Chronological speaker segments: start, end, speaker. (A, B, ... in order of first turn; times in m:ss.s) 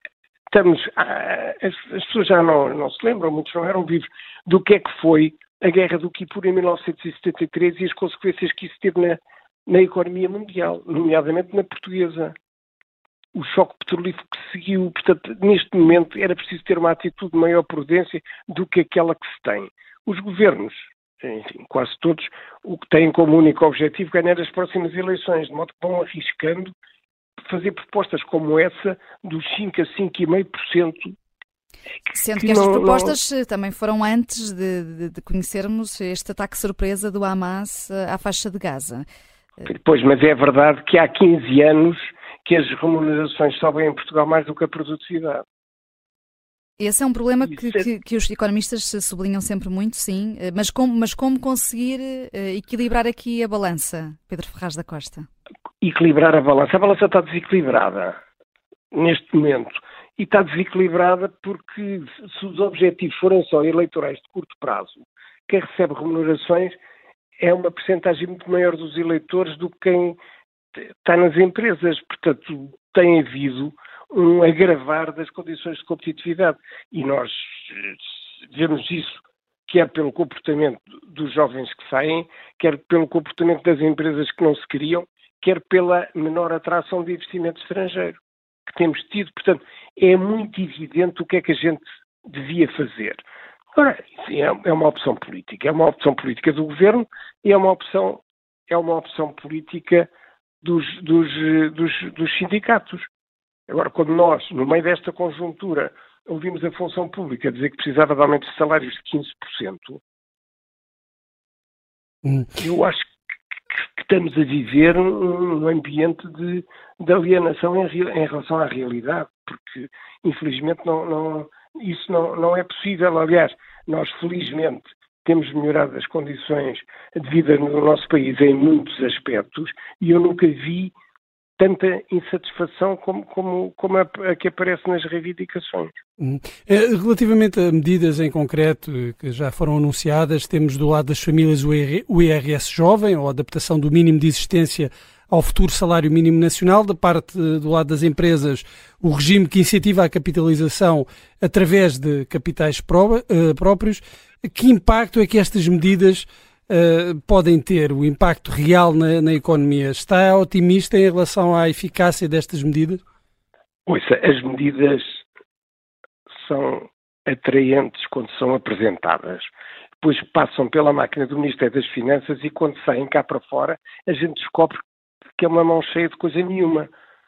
0:00.5-0:12.3 A
0:13.4-0:26.7 A
0:27.4-0:31.2 A
0:32.1-0:39.0 B
0:32.4-0:33.2 A
0:39.7-0:45.4 A
0:46.8-0:55.3 B
0:55.8-0:58.2 A
0:58.9-1:06.8 A
1:07.4-1:10.2 A
1:10.8-1:28.2 A
1:28.7-1:33.2 A
1:33.8-1:40.1 A
1:40.6-1:43.1 A
1:43.7-1:50.0 A
1:52.2-1:52.5 C
1:52.6-1:53.0 A
1:53.8-2:10.9 A
2:11.6-2:15.9 A
2:16.2-2:43.0 C
2:43.9-2:45.2 A
2:46.4-2:49.5 A
2:50.0-2:54.8 A
2:55.4-2:56.9 A